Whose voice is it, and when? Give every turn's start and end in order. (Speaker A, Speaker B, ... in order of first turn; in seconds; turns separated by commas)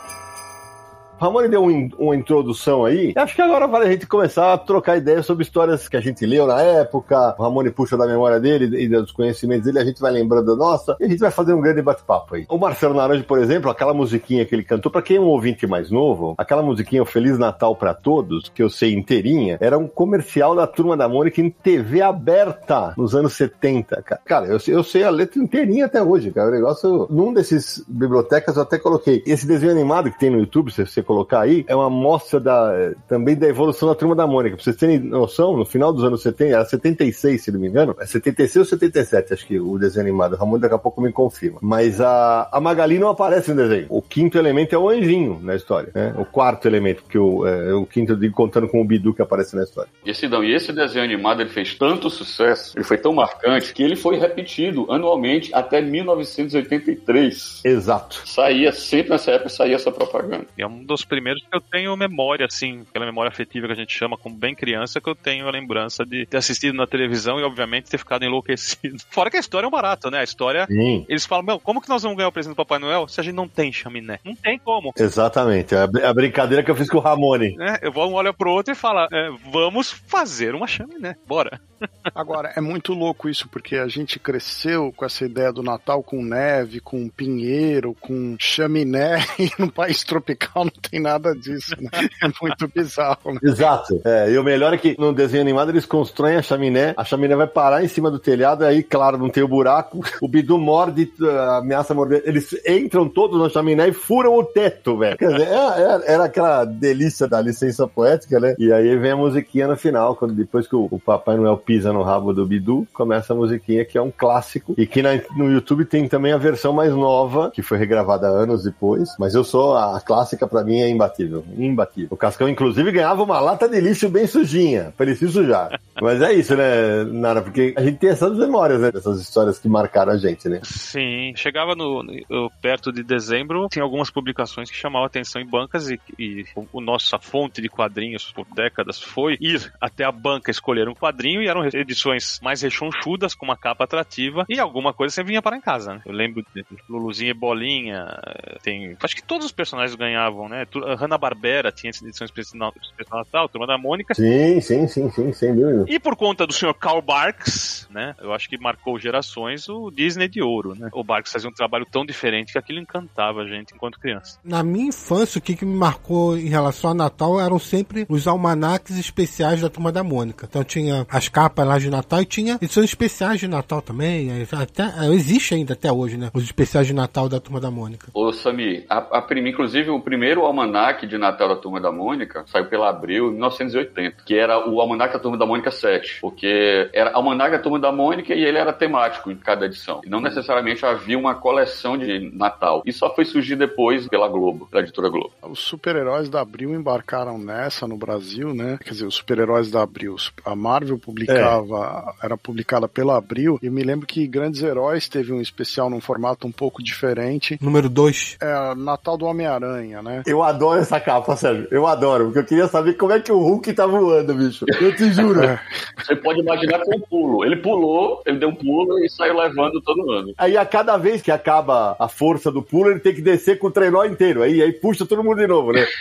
Speaker A: 1.2-49.9, Speaker B: 50.0-57.6, Speaker A: 57.6-58.2, Speaker B: 58.2-60.5, Speaker C: 60.6-74.9, Speaker A: 70.7-71.0, Speaker A: 75.0-77.5, Speaker C: 77.5-82.1, Speaker D: 82.1-93.5, Speaker A: 93.4-130.6, Speaker C: 130.6-154.2, Speaker A: 154.1-155.9, Speaker C: 155.9-164.4, Speaker E: 164.4-178.1, Speaker B: 178.1-195.3, Speaker D: 195.4-207.6, Speaker A: 201.3-201.6, Speaker E: 207.6-208.3, Speaker D: 208.4-210.2, Speaker A: 210.3-215.5, Speaker D: 215.3-215.6, Speaker B: 216.0-220.3, Speaker A: 220.4-225.9